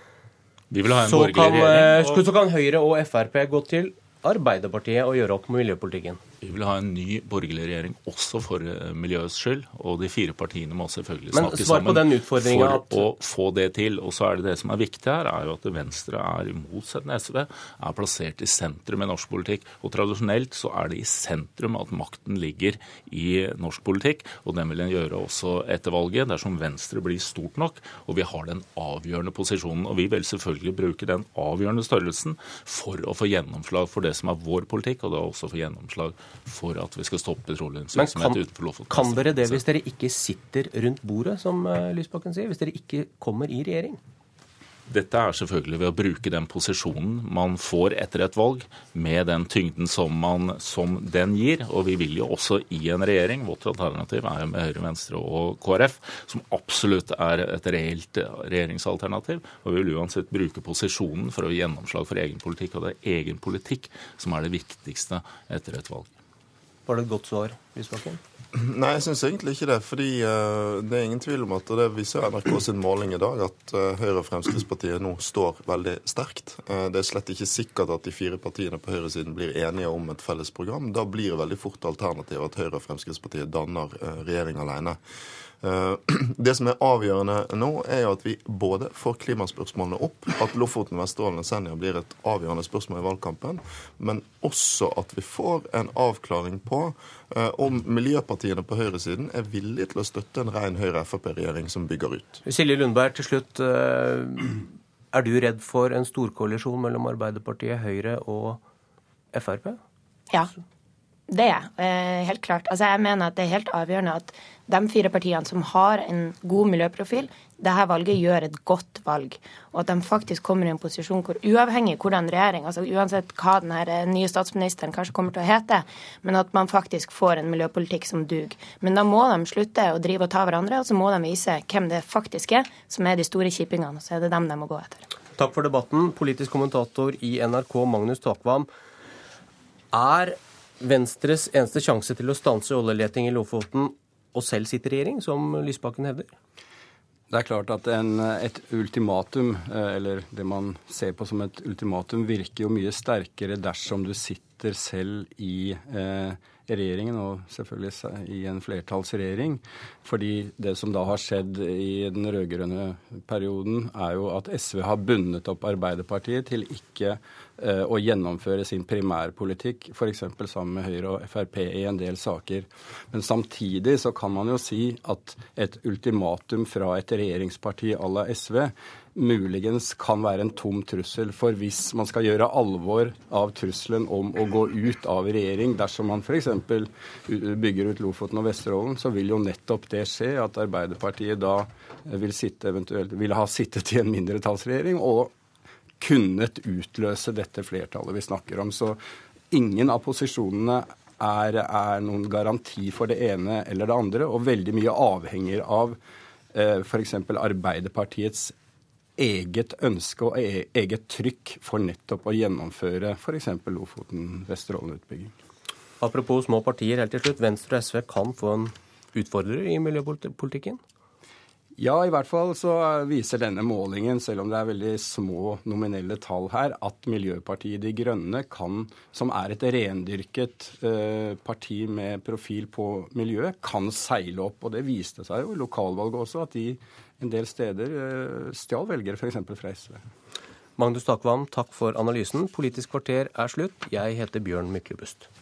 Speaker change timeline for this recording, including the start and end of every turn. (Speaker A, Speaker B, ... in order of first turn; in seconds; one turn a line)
Speaker A: 0.7-2.2
Speaker B: 1.0-6.2
Speaker A: 6.4-39.6
Speaker B: 11.3-13.0
Speaker B: 37.9-44.0
Speaker A: 44.9-66.1
Speaker B: 66.9-68.2
Speaker C: 68.5-85.0
Speaker C: 85.6-102.4
Speaker B: 102.5-108.6
Speaker B: 109.3-109.8
Speaker D: 111.3-135.1
Speaker B: 135.3-138.7
Speaker B: 139.9-146.3
Speaker E: 147.3-195.3
Speaker E: 196.0-199.0
Speaker E: 199.5-206.0
Speaker E: 206.5-208.5
Speaker E: 209.2-215.3
Speaker B: 216.0-220.8
Speaker E: 221.8-240.0
Speaker B: 240.8-245.3